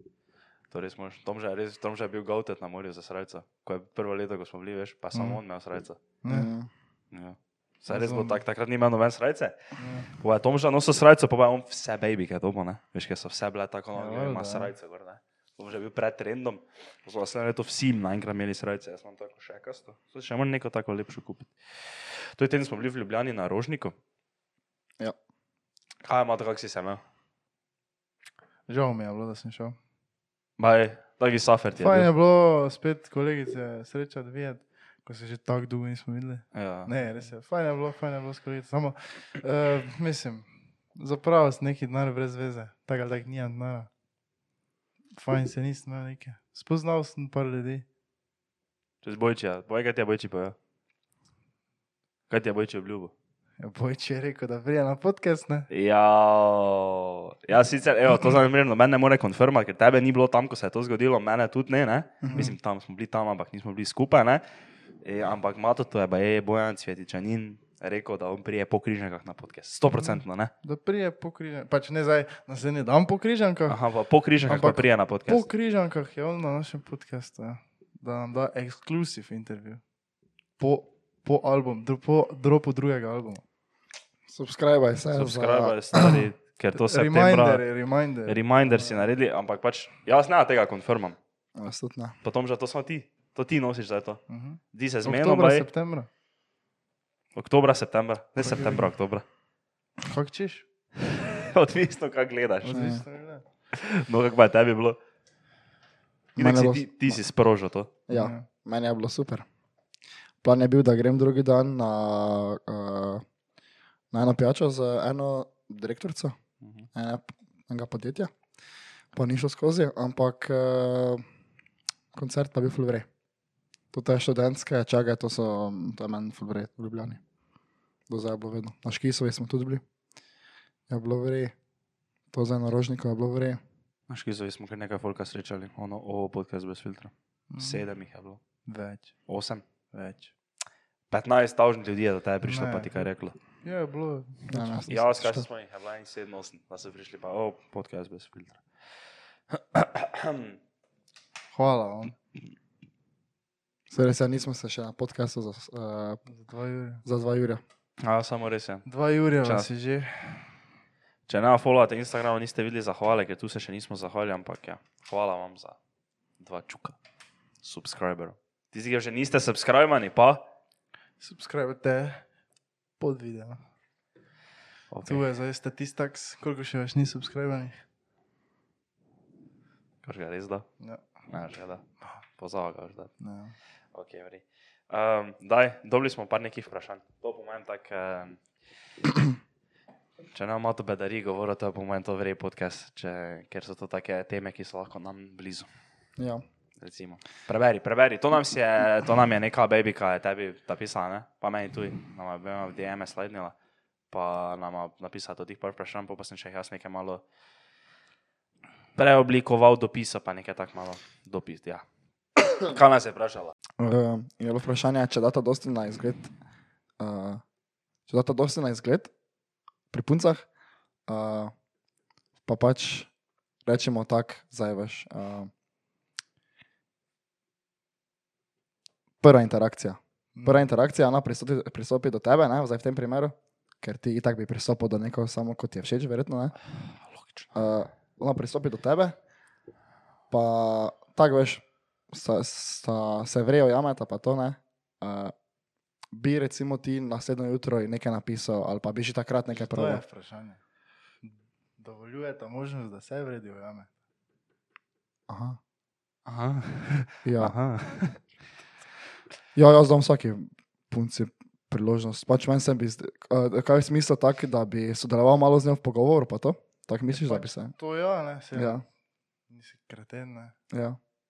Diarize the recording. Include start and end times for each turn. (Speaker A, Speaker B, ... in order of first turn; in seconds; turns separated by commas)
Speaker A: 0.7-6.0, Speaker B: 5.1-5.4, Speaker B: 6.2-6.5, Speaker C: 6.3-6.7, Speaker A: 7.1-9.6, Speaker B: 7.9-8.4, Speaker B: 9.8-10.1, Speaker A: 10.1-23.9, Speaker B: 13.9-14.7, Speaker A: 26.0-27.0, Speaker B: 28.7-29.8, Speaker A: 30.6-32.1, Speaker B: 31.8-43.9, Speaker A: 36.5-36.9, Speaker B: 45.1-47.8, Speaker A: 49.0-50.5, Speaker A: 52.3-53.1, Speaker B: 53.6-55.7, Speaker A: 55.7-64.4, Speaker C: 62.2-62.5, Speaker B: 62.2-62.5, Speaker A: 65.0-70.5, Speaker B: 70.1-73.8, Speaker A: 73.7-75.4, Speaker B: 74.5-79.8, Speaker B: 80.6-83.4, Speaker C: 84.3-86.2, Speaker A: 85.1-87.6, Speaker B: 86.8-89.0, Speaker A: 88.2-91.2, Speaker C: 91.5-92.2, Speaker A: 92.2-94.2, Speaker B: 94.3-96.1, Speaker A: 94.7-95.7, Speaker A: 97.3-99.2, Speaker B: 98.4-98.9, Speaker B: 100.0-100.6, Speaker A: 101.1-103.0, Speaker B: 102.6-103.4, Speaker C: 102.7-103.0, Speaker A: 103.7-105.0, Speaker A: 106.3-107.9, Speaker C: 106.4-107.2, Speaker C: 108.1-109.4, Speaker B: 108.1-108.5, Speaker C: 110.4-113.2, Speaker C: 114.1-116.3, Speaker A: 116.6-116.9, Speaker C: 116.9-118.3, Speaker C: 119.1-121.2, Speaker C: 122.1-123.0, Speaker C: 123.9-127.2, Speaker C: 128.1-129.8, Speaker C: 130.9-131.5, Speaker C: 132.3-133.6, Speaker A: 134.1-138.4, Speaker B: 137.5-137.8, Speaker B: 138.7-139.1, Speaker A: 139.3-139.6, Speaker B: 139.9-140.3, Speaker A: 141.1-143.3, Speaker B: 142.4-143.1, Speaker B: 143.6-144.7, Speaker C: 144.5-145.4, Speaker A: 144.5-148.6, Speaker A: 149.5-150.6, Speaker B: 151.5-152.1, Speaker C: 153.9-156.2, Speaker B: 156.3-157.0, Speaker C: 157.0-157.6, Speaker A: 158.0-158.9, Speaker B: 158.8-160.5, Speaker A: 159.4-159.7, Speaker A: 161.3-165.8, Speaker A: 166.4-166.9, Speaker A: 167.6-170.4, Speaker B: 171.2-172.2, Speaker B: 173.0-173.6, Speaker A: 174.9-175.2, Speaker B: 175.1-177.8, Speaker A: 180.0-180.7, Speaker A: 181.3-183.1, Speaker B: 183.2-183.6, Speaker A: 183.9-188.4, Speaker A: 190.3-195.7, Speaker C: 196.2-196.4, Speaker A: 196.8-203.5, Speaker A: 204.1-207.2, Speaker A: 208.9-211.8, Speaker A: 212.6-213.5, Speaker C: 213.8-216.3, Speaker C: 217.0-217.4, Speaker C: 218.1-219.1, Speaker C: 219.9-220.4, Speaker C: 221.1-221.5, Speaker C: 222.4-223.1, Speaker C: 223.7-225.5, Speaker C: 229.2-236.5, Speaker B: 230.3-230.7, Speaker A: 237.0-237.4, Speaker C: 237.5-239.2, Speaker C: 240.3-245.3, Speaker C: 246.1-250.0, Speaker B: 249.5-250.6, Speaker B: 251.2-253.9, Speaker C: 255.3-255.6, Speaker A: 256.2-258.2, Speaker C: 257.2-257.5, Speaker C: 259.5-267.7, Speaker B: 267.1-268.8, Speaker C: 268.5-268.8, Speaker B: 269.5-270.5, Speaker C: 270.7-271.0